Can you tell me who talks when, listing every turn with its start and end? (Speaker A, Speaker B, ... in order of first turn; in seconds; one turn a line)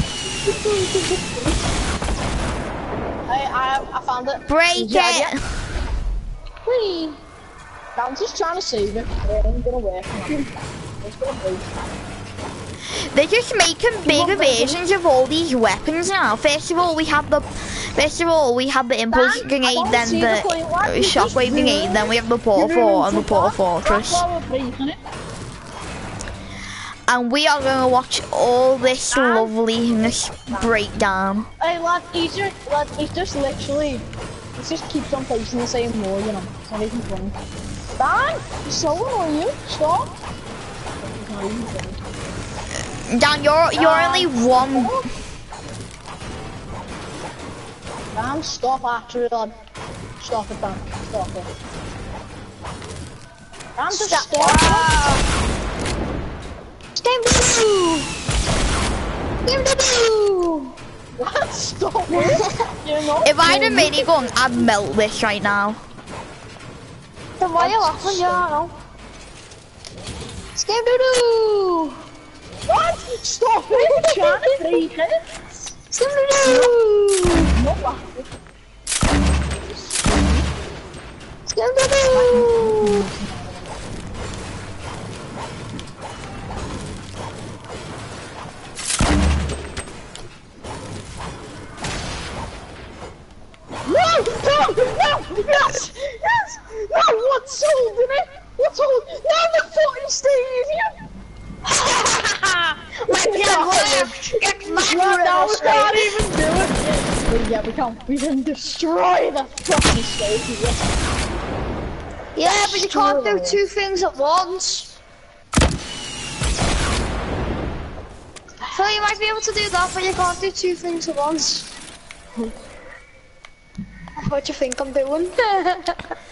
Speaker A: 0.5-1.4
Speaker A: 3.3-5.3
Speaker B: 4.5-5.4
Speaker C: 6.7-7.2
Speaker A: 8.0-11.9
Speaker B: 13.1-24.2
Speaker A: 14.1-14.8
Speaker A: 19.1-25.0
Speaker B: 27.1-31.5
Speaker A: 29.1-29.5
Speaker A: 31.6-37.4
Speaker A: 38.0-40.2
Speaker A: 41.0-42.0
Speaker B: 43.1-44.9
Speaker A: 43.7-45.1
Speaker A: 48.1-49.5
Speaker A: 50.2-51.5
Speaker A: 53.8-54.9
Speaker C: 53.9-55.2
Speaker C: 57.0-58.1
Speaker C: 59.5-60.8
Speaker A: 61.2-63.9
Speaker C: 62.1-62.5
Speaker B: 63.2-65.8
Speaker C: 63.7-64.0
Speaker C: 67.4-68.7
Speaker A: 67.6-68.5
Speaker C: 70.6-72.0
Speaker A: 72.7-75.1
Speaker C: 73.7-74.8
Speaker C: 75.9-77.5
Speaker A: 76.4-76.8
Speaker A: 77.5-78.3
Speaker A: 79.5-80.5
Speaker C: 81.5-83.1
Speaker A: 82.1-83.8
Speaker A: 93.8-100.9
Speaker C: 101.9-102.4
Speaker C: 103.0-106.1
Speaker A: 103.1-110.9
Speaker C: 112.3-115.0
Speaker A: 112.4-113.6
Speaker C: 118.7-121.7
Speaker C: 124.2-126.0